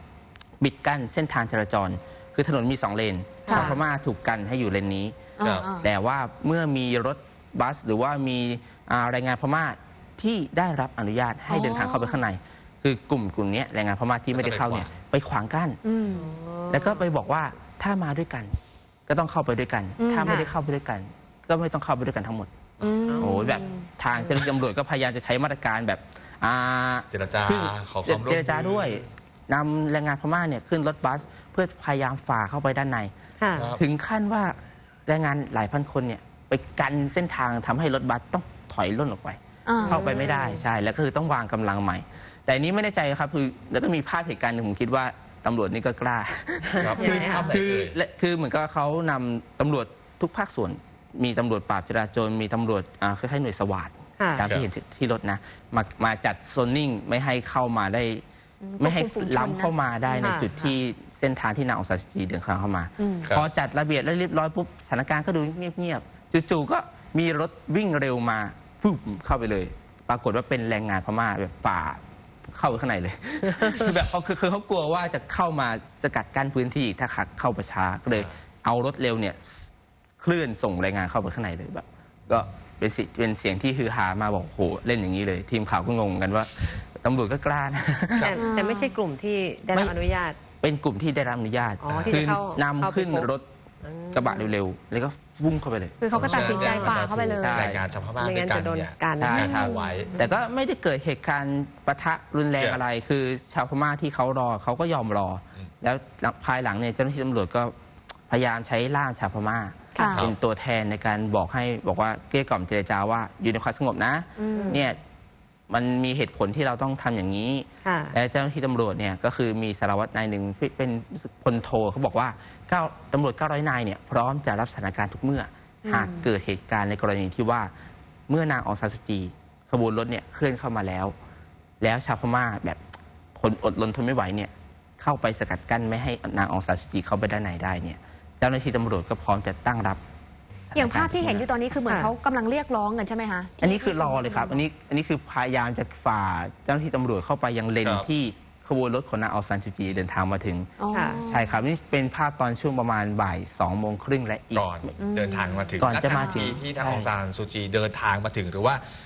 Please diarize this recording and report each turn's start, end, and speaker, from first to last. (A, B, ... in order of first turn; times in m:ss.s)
0:00.6-0:15.8 A
0:03.4-0:03.8 B
0:05.4-0:05.9 C
0:05.4-0:05.7 D
0:11.5-0:12.2 C
0:14.3-0:15.0 D
0:15.8-0:16.2 C
0:16.1-0:17.1 B
0:16.7-0:18.6 A
0:19.1-0:22.5 A
0:20.0-0:20.5 C
0:20.3-0:20.5 B
0:22.8-0:23.9 C
0:23.1-0:23.6 B
0:23.2-0:33.1 A
0:27.1-0:29.1 D
0:33.4-0:33.8 B
0:33.6-0:33.8 D
0:33.8-0:58.2 A
0:39.7-0:40.1 C
0:39.8-0:40.6 B
0:46.7-0:47.6 B
0:46.8-0:48.0 D
0:54.2-0:54.4 B
0:54.4-0:54.7 D
0:58.6-1:00.5 C
0:58.8-1:12.0 A
1:00.2-1:00.6 B
1:03.0-1:03.3 C
1:12.5-1:19.7 A
1:18.1-1:18.3 D
1:20.2-1:28.4 A
1:28.2-1:30.4 B
1:28.4-1:29.0 C
1:30.6-1:33.4 A
1:31.8-1:33.3 B
1:31.9-1:32.4 D
1:33.8-1:34.5 B
1:34.1-1:37.8 A
1:36.0-1:37.6 C
1:36.1-1:40.2 D
1:36.2-1:37.1 B
1:38.2-1:40.4 B
1:39.2-1:39.6 A
1:40.2-1:47.7 A
1:48.3-1:55.0 A
1:50.0-1:50.3 C
1:50.0-1:50.4 D
1:54.4-1:54.8 C
1:54.5-1:54.8 B
1:55.7-2:07.7 A
1:57.8-1:58.2 B
2:05.9-2:06.2 B
2:08.3-2:11.2 A
2:11.8-2:12.8 A
2:13.4-2:20.0 A
2:20.7-2:21.5 A
2:20.7-2:24.6 C
2:21.9-2:22.1 B
2:23.6-2:30.7 A
2:27.8-2:28.1 D
2:30.8-2:31.6 C
2:30.9-2:31.2 B
2:31.2-2:34.9 A
2:34.5-2:38.8 D
2:35.0-2:36.6 C
2:35.8-2:37.1 A